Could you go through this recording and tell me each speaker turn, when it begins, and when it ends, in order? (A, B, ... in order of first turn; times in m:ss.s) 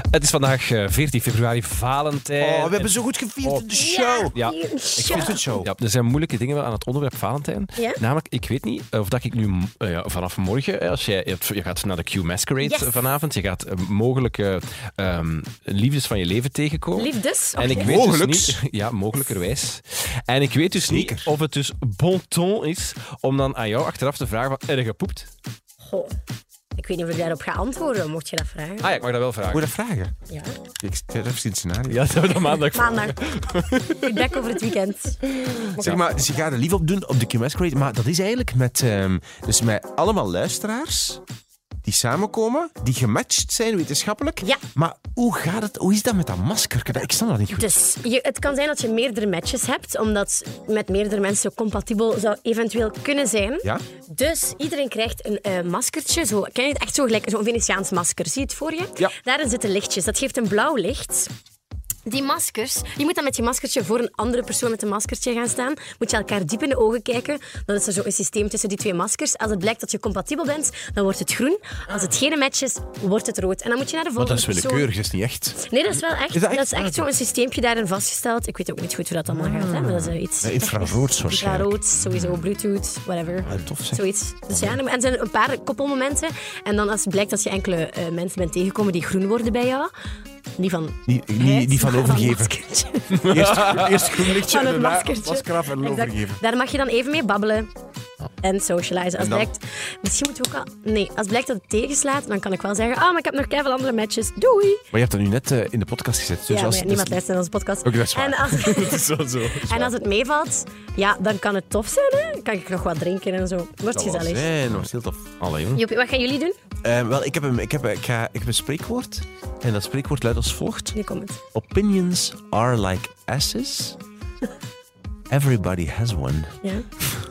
0:00.1-0:02.9 A
0:02.4-0:04.3 B
0:03.4-0:03.7 A
0:03.8-0:05.6 C
0:05.0-0:05.7 B
0:05.6-0:25.3 A
0:12.6-0:12.9 C
0:17.0-0:18.0 C
0:17.7-0:18.6 B
0:20.8-0:21.3 B
0:25.8-0:26.1 C
0:26.8-0:28.9 C
0:28.8-0:29.6 A
0:29.5-0:30.1 B
0:30.3-0:30.6 C
0:30.8-0:32.2 B
0:31.9-0:34.6 A
0:32.6-0:33.2 C
0:33.9-0:35.6 C
0:35.4-0:36.0 A
0:35.7-0:41.2 B
0:41.8-0:47.8 B
0:47.5-1:01.3 C
1:02.0-1:14.9 C
1:14.2-1:15.6 B
1:15.6-1:29.9 C
1:16.3-1:17.1 B
1:19.3-1:21.8 B
1:23.4-1:24.8 B
1:30.6-1:37.7 C
1:31.1-1:32.5 B
1:33.1-1:36.4 B
1:33.2-1:34.2 A
1:38.4-1:44.8 C
1:39.2-1:39.5 B
1:44.9-1:47.2 B
1:46.5-1:54.5 C
1:47.8-1:49.2 B
1:48.5-1:49.8 A
1:53.9-1:55.3 B
1:55.4-1:55.8 A
1:55.7-1:56.6 C
1:56.8-2:01.0 B
2:00.9-2:01.4 C
2:01.5-2:04.0 B
2:05.3-2:06.6 B